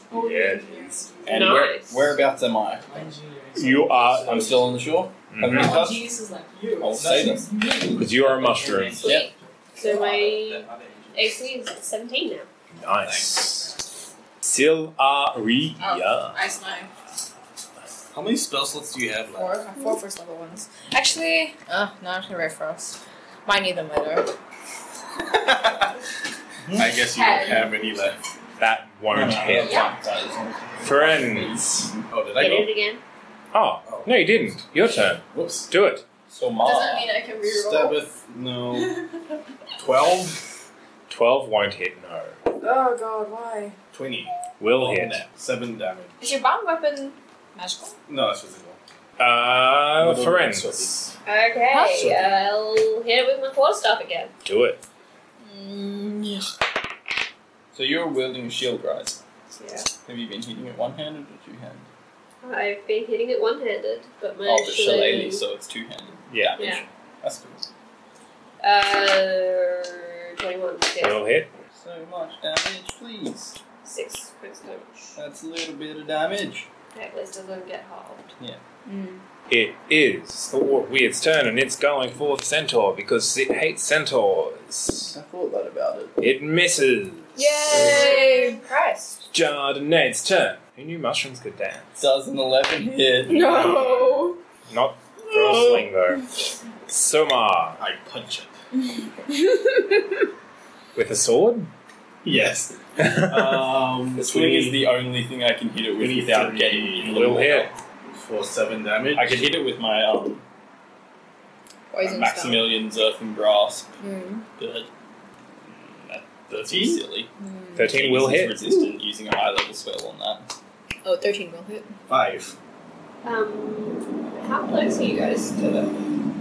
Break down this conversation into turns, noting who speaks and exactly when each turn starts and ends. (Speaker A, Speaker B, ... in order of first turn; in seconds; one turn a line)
Speaker A: 0.1-1.5
Speaker B: 0.1-0.7
Speaker C: 1.2-2.1
Speaker D: 1.3-3.0
Speaker E: 2.9-4.1
Speaker B: 3.6-4.6
Speaker D: 4.1-6.1
Speaker B: 5.3-5.9
Speaker A: 5.5-8.0
Speaker D: 6.8-9.3
Speaker E: 7.0-7.5
Speaker B: 8.0-9.1
Speaker C: 9.0-12.5
Speaker E: 9.8-11.3
Speaker B: 12.7-13.7
Speaker E: 13.0-13.7
Speaker B: 14.4-16.4
Speaker A: 15.8-16.9
Speaker E: 18.1-19.6
Speaker A: 19.4-24.3
Speaker E: 25.3-26.0
Speaker D: 26.7-27.0
Speaker E: 26.7-28.2
Speaker A: 27.1-27.8
Speaker B: 28.6-29.9
Speaker D: 29.1-32.1
Speaker A: 29.6-29.9
Speaker B: 30.8-31.7
Speaker E: 32.1-32.7
Speaker C: 32.4-33.0
Speaker B: 33.5-36.0
Speaker E: 33.9-34.6
Speaker E: 35.3-35.7
Speaker D: 36.3-37.1
Speaker A: 36.6-38.0
Speaker E: 37.5-39.0
Speaker A: 38.7-39.2
Speaker E: 39.8-40.4
Speaker B: 41.1-42.4
Speaker A: 42.6-43.8
Speaker E: 43.9-46.1
Speaker B: 44.6-45.2
Speaker A: 46.2-48.0
Speaker E: 48.1-48.8
Speaker B: 49.2-50.9
Speaker E: 50.0-51.1
Speaker C: 51.2-54.3
Speaker A: 51.7-52.1
Speaker E: 52.0-52.3
Speaker B: 54.5-54.8
Speaker A: 55.4-56.5
Speaker D: 57.7-59.2
Speaker C: 59.5-59.9
Speaker D: 60.0-61.9
Speaker C: 62.4-65.4
Speaker D: 64.4-67.7
Speaker B: 66.3-66.7
Speaker C: 66.6-66.8
Speaker C: 68.6-71.3
Speaker B: 71.0-71.5
Speaker D: 71.7-73.6
Speaker C: 73.8-75.2
Speaker D: 75.2-76.7
Speaker C: 76.9-78.3
Speaker A: 78.9-79.2
Speaker B: 79.5-85.1
Speaker D: 85.1-86.2
Speaker B: 86.2-87.8
Speaker A: 87.3-89.1
Speaker C: 87.7-89.2
Speaker B: 89.3-91.9
Speaker D: 92.0-94.0
Speaker A: 93.3-94.4
Speaker B: 93.4-96.3
Speaker A: 95.4-95.8
Speaker B: 96.9-97.8
Speaker E: 97.8-98.5
Speaker A: 99.3-100.0
Speaker B: 101.0-101.7
Speaker E: 102.2-104.9
Speaker B: 103.0-103.9
Speaker D: 104.1-107.7
Speaker E: 106.0-107.2
Speaker B: 107.0-107.7
Speaker E: 108.2-109.4
Speaker D: 109.1-110.4
Speaker A: 111.9-112.8
Speaker D: 112.0-113.9
Speaker A: 114.0-114.5
Speaker D: 114.6-114.9
Speaker D: 115.7-117.3
Speaker E: 116.5-117.0
Speaker A: 117.4-117.9
Speaker B: 117.8-118.6
Speaker D: 117.9-120.5
Speaker A: 121.0-121.9
Speaker E: 122.1-122.5
Speaker C: 123.2-126.0